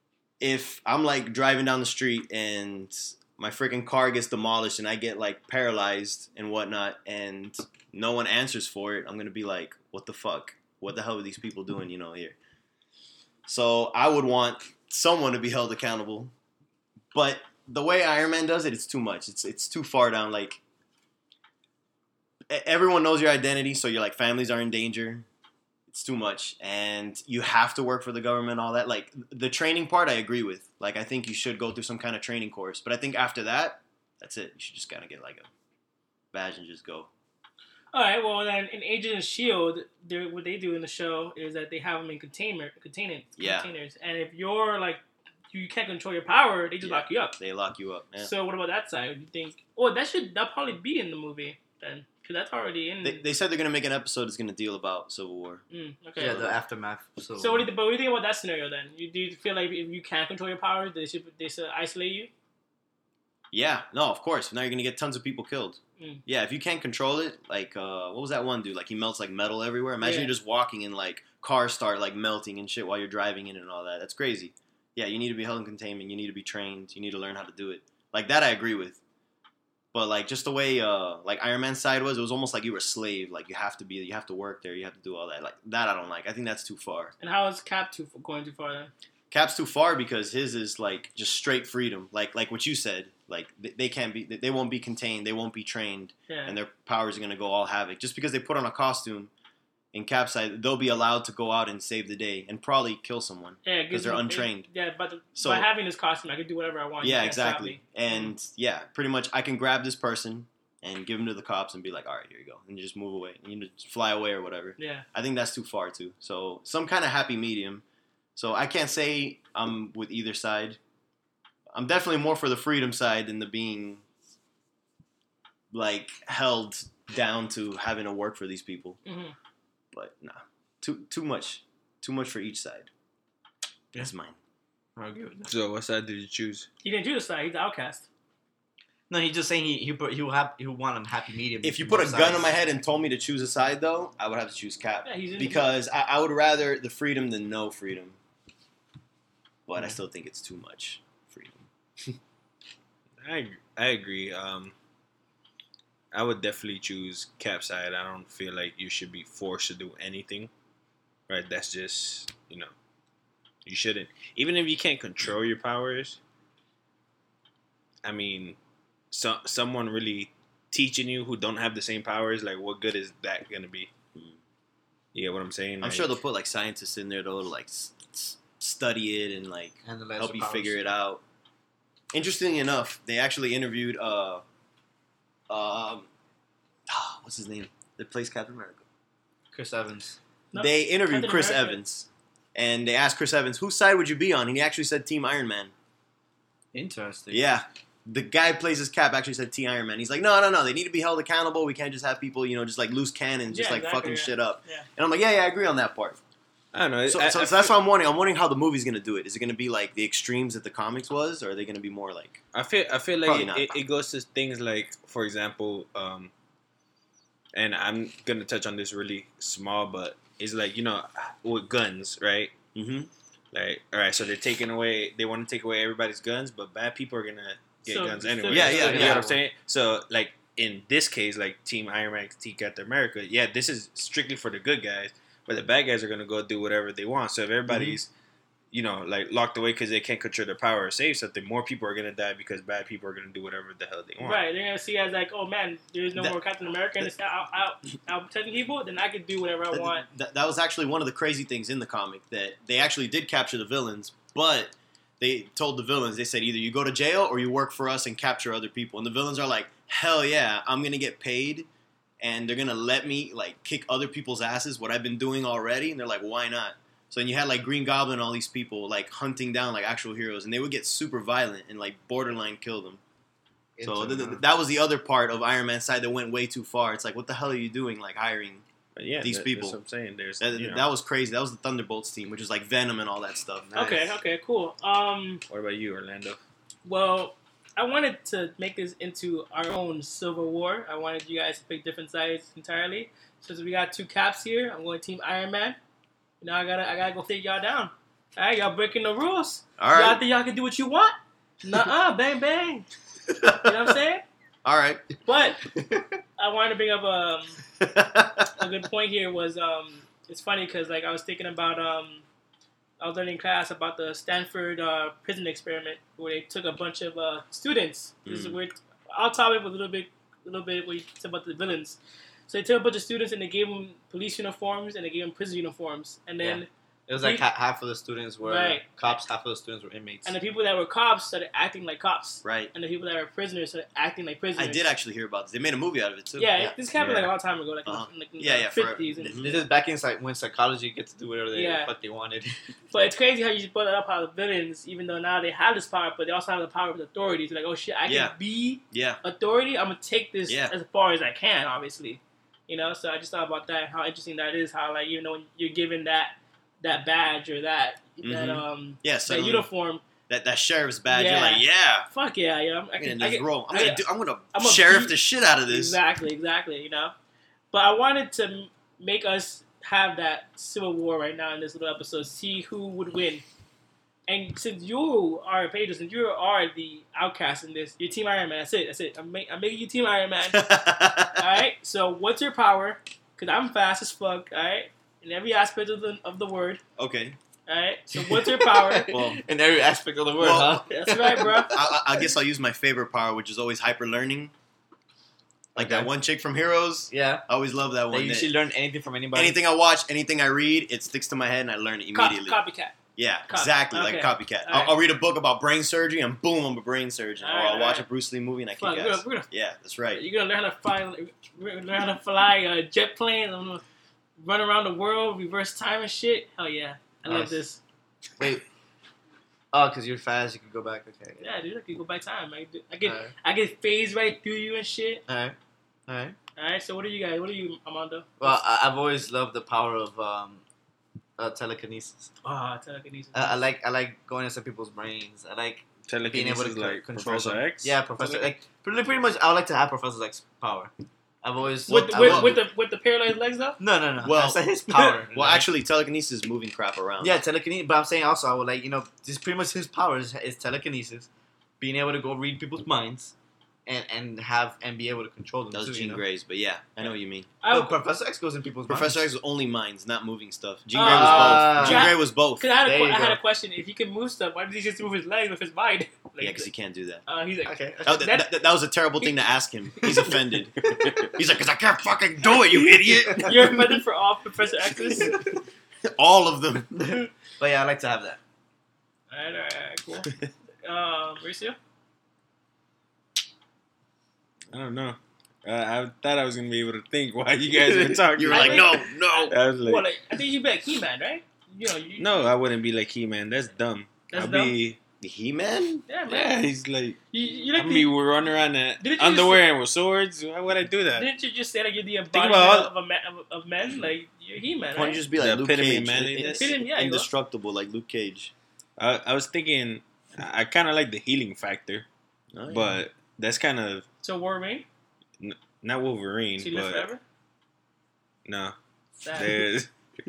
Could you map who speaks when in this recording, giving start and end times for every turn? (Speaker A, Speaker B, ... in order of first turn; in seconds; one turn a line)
Speaker A: 0.4-12.4
Speaker A: 13.5-16.3
Speaker A: 17.1-20.6
Speaker A: 22.5-25.2
Speaker A: 25.9-35.5
Speaker A: 36.3-37.1
Speaker B: 37.9-47.4
Speaker A: 43.4-43.7
Speaker A: 46.8-48.3
Speaker B: 48.2-53.2
Speaker A: 53.0-55.6
Speaker B: 55.7-56.5
Speaker C: 56.2-57.7
Speaker B: 57.4-62.3
Speaker A: 63.5-79.0
Speaker B: 70.0-70.3
Speaker A: 79.9-87.1
Speaker B: 87.2-88.9
Speaker A: 89.3-99.3
Speaker B: 96.3-96.6
Speaker A: 99.9-104.7
Speaker B: 103.6-108.3
Speaker A: 105.3-105.7
Speaker A: 107.0-117.8
Speaker B: 114.8-115.0
Speaker A: 118.4-120.8
Speaker A: 121.7-124.0
Speaker A: 125.7-129.0
Speaker B: 129.0-129.3
Speaker A: 129.9-132.9
Speaker A: 133.9-134.4
Speaker C: 135.0-135.5
Speaker D: 135.5-136.7
Speaker B: 136.8-138.0
Speaker C: 139.1-142.5
Speaker A: 141.6-148.2
Speaker B: 145.0-145.6
Speaker A: 149.7-152.2
Speaker D: 153.2-154.7
Speaker D: 156.1-160.5
Speaker D: 161.3-162.7
Speaker D: 163.6-166.2
Speaker D: 168.0-168.6
Speaker D: 169.1-173.9
Speaker D: 175.1-176.1
Speaker A: 175.8-181.2
Speaker C: 179.8-180.8
Speaker A: 182.1-184.4
Speaker A: 185.5-186.1
Speaker A: 186.9-188.8
Speaker C: 189.5-190.2
Speaker B: 190.5-191.8
Speaker A: 190.5-195.7
Speaker C: 196.7-197.4
Speaker A: 197.3-206.2
Speaker B: 203.5-204.9
Speaker D: 206.7-207.7
Speaker A: 207.1-212.4
Speaker D: 212.5-216.3
Speaker A: 213.2-213.7
Speaker D: 217.5-222.5
Speaker A: 222.8-223.1
Speaker D: 223.5-238.1
Speaker B: 227.9-229.1
Speaker A: 228.5-229.2
Speaker C: 228.6-229.4
Speaker C: 237.7-238.0
Speaker D: 238.7-244.4
Speaker B: 244.2-250.0
Speaker A: 249.7-261.7
Speaker A: 262.2-273.0
Speaker C: 273.8-274.4
Speaker A: 273.8-278.6
Speaker D: 279.0-280.9
Speaker A: 279.2-279.8
Speaker A: 280.4-283.7
Speaker C: 283.7-284.2
Speaker B: 283.8-285.4
Speaker D: 285.5-286.4
Speaker B: 286.9-295.8
Speaker B: 296.4-302.9
Speaker A: 299.8-300.2
Speaker A: 303.4-303.7
Speaker B: 303.5-304.2
Speaker A: 304.6-305.0
Speaker B: 305.2-305.6
Speaker B: 306.4-307.6
Speaker A: 307.8-308.5
Speaker B: 308.6-312.2
Speaker B: 313.0-326.7
Speaker A: 318.2-318.6
Speaker C: 326.4-330.4
Speaker B: 327.2-327.4
Speaker B: 328.4-329.2
Speaker B: 330.2-334.9
Speaker A: 332.4-332.7
Speaker A: 334.6-337.3
Speaker B: 336.4-339.4
Speaker A: 337.9-339.7
Speaker C: 339.4-342.5
Speaker B: 341.5-341.9
Speaker B: 342.9-360.0
Speaker A: 348.1-348.4
Speaker A: 348.9-349.2
Speaker A: 350.5-350.7
Speaker A: 358.2-359.7
Speaker A: 360.3-362.1
Speaker B: 361.1-367.1
Speaker A: 363.0-366.0
Speaker B: 367.7-373.4
Speaker B: 374.3-380.8
Speaker A: 380.5-381.4
Speaker B: 381.4-386.8
Speaker A: 387.0-387.4
Speaker B: 387.7-389.1
Speaker C: 388.1-392.0
Speaker A: 389.1-389.4
Speaker A: 390.4-390.8
Speaker B: 390.9-391.7
Speaker A: 391.7-394.5
Speaker C: 395.8-396.1
Speaker A: 395.8-398.5
Speaker C: 397.1-397.4
Speaker C: 398.1-399.6
Speaker A: 399.3-402.6
Speaker B: 402.1-402.9
Speaker A: 403.1-410.2
Speaker B: 403.5-405.0
Speaker B: 407.4-408.1
Speaker B: 408.8-409.5
Speaker B: 410.1-413.8
Speaker B: 414.4-417.8
Speaker C: 417.3-417.6
Speaker C: 418.4-418.6
Speaker C: 419.7-421.4
Speaker B: 421.4-425.2
Speaker C: 423.0-423.3
Speaker C: 425.3-425.6
Speaker C: 426.1-426.4
Speaker B: 426.6-428.3
Speaker C: 428.4-430.6
Speaker C: 431.4-432.3
Speaker B: 432.4-433.6
Speaker C: 433.3-442.6
Speaker D: 436.1-438.4
Speaker B: 441.9-443.8
Speaker A: 441.9-442.6
Speaker C: 443.8-445.6
Speaker A: 444.2-444.6
Speaker A: 445.3-447.4
Speaker C: 447.2-451.3
Speaker C: 451.8-453.3
Speaker C: 453.9-456.2
Speaker A: 455.7-457.5
Speaker B: 457.6-458.0
Speaker C: 457.7-459.2
Speaker A: 458.9-462.6
Speaker B: 460.9-466.7
Speaker C: 461.0-462.2
Speaker C: 462.8-463.4
Speaker A: 466.4-467.2
Speaker B: 467.2-468.5
Speaker C: 467.6-468.1
Speaker A: 468.0-473.8
Speaker C: 473.2-473.8
Speaker B: 473.4-475.4
Speaker A: 476.0-477.1
Speaker C: 477.0-478.4
Speaker B: 479.3-480.3
Speaker B: 480.8-481.8
Speaker D: 484.7-489.0
Speaker A: 487.7-489.5
Speaker B: 488.5-492.5
Speaker D: 489.5-490.1
Speaker D: 492.2-495.0
Speaker B: 494.3-494.8
Speaker A: 495.2-496.1
Speaker B: 496.1-496.5
Speaker D: 496.3-497.2
Speaker B: 497.3-498.1
Speaker D: 497.8-501.3
Speaker B: 499.0-499.7
Speaker B: 501.1-505.2
Speaker D: 502.3-502.9
Speaker A: 504.9-508.5
Speaker D: 505.4-506.7
Speaker B: 506.4-507.3
Speaker D: 509.0-512.0
Speaker A: 512.5-513.0
Speaker D: 512.7-514.0
Speaker B: 514.2-514.9
Speaker D: 515.4-517.1
Speaker B: 516.6-517.2
Speaker D: 518.5-518.8
Speaker B: 519.2-519.6
Speaker D: 519.3-519.9